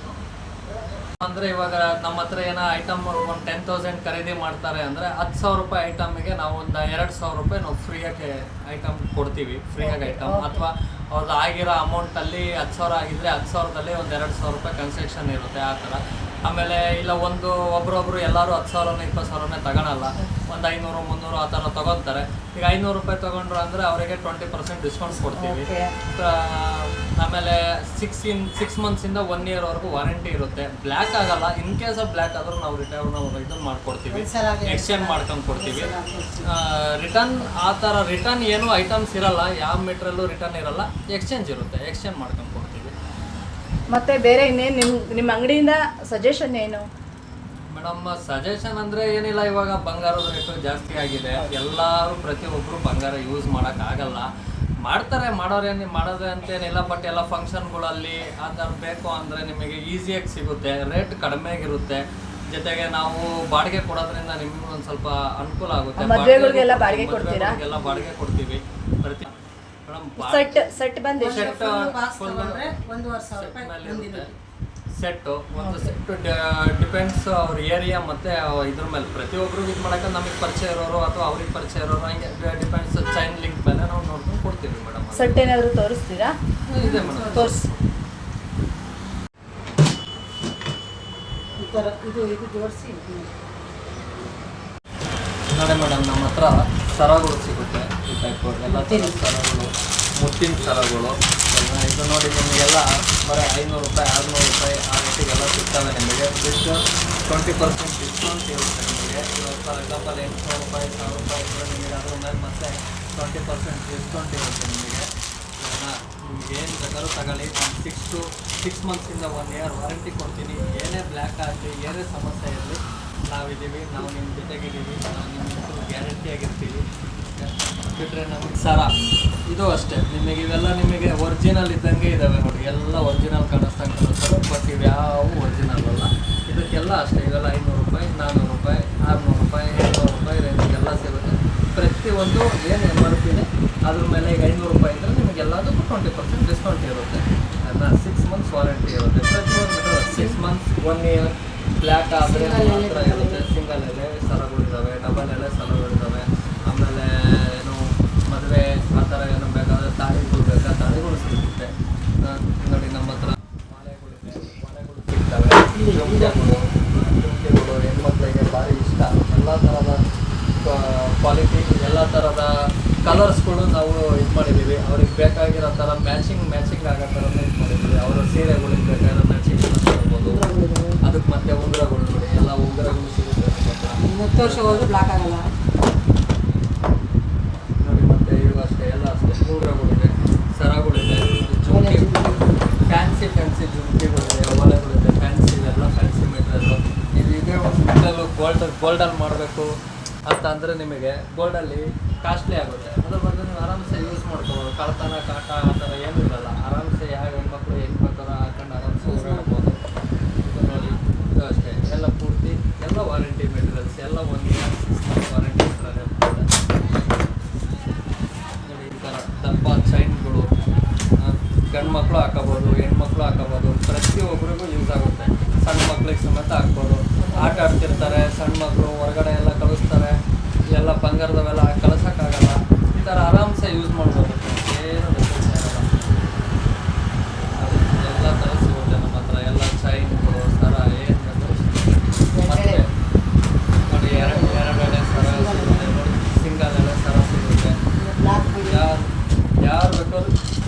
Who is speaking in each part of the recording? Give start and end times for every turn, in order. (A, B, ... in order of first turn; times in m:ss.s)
0:01.2-0:35.9 A
0:09.8-0:10.6 B
0:25.3-0:25.8 C
0:34.1-0:36.5 B
0:36.4-0:42.9 A
0:43.9-0:46.8 C
0:47.7-0:54.3 A
0:54.8-1:02.0 A
1:02.5-1:09.3 A
1:06.0-1:07.6 C
1:09.8-1:10.7 A
1:10.2-1:11.5 C
1:11.2-1:14.4 B
1:11.2-1:12.8 A
1:13.3-1:14.3 A
1:15.0-1:25.4 A
1:15.6-1:15.9 C
1:25.1-1:26.3 C
1:26.7-1:27.5 B
1:26.8-1:27.8 A
1:27.3-1:27.6 C
1:31.6-1:33.3 B
1:35.5-1:55.0 A
1:38.6-1:39.2 B
1:55.6-2:06.8 A
2:07.3-2:08.9 A
2:09.5-2:50.0 A
2:32.2-2:33.4 B
2:45.7-2:46.4 B
2:50.6-2:52.5 A
2:53.0-3:00.4 A
3:00.2-3:01.0 B
3:01.0-3:05.1 A
3:04.0-3:05.4 B
3:07.8-3:12.1 A
3:11.7-3:12.6 B
3:12.9-3:19.7 A
3:20.3-3:29.8 A
3:29.1-3:29.4 B
3:30.4-3:36.5 A
3:38.6-3:40.5 A
3:41.2-3:50.2 A
3:47.3-3:48.0 B
3:50.7-3:56.4 A
3:57.6-4:01.9 A
4:02.3-4:02.8 B
4:02.4-4:02.9 A
4:03.9-4:07.8 A
4:03.9-4:05.9 B
4:08.0-4:08.8 B
4:08.6-4:09.0 A
4:09.6-4:10.3 A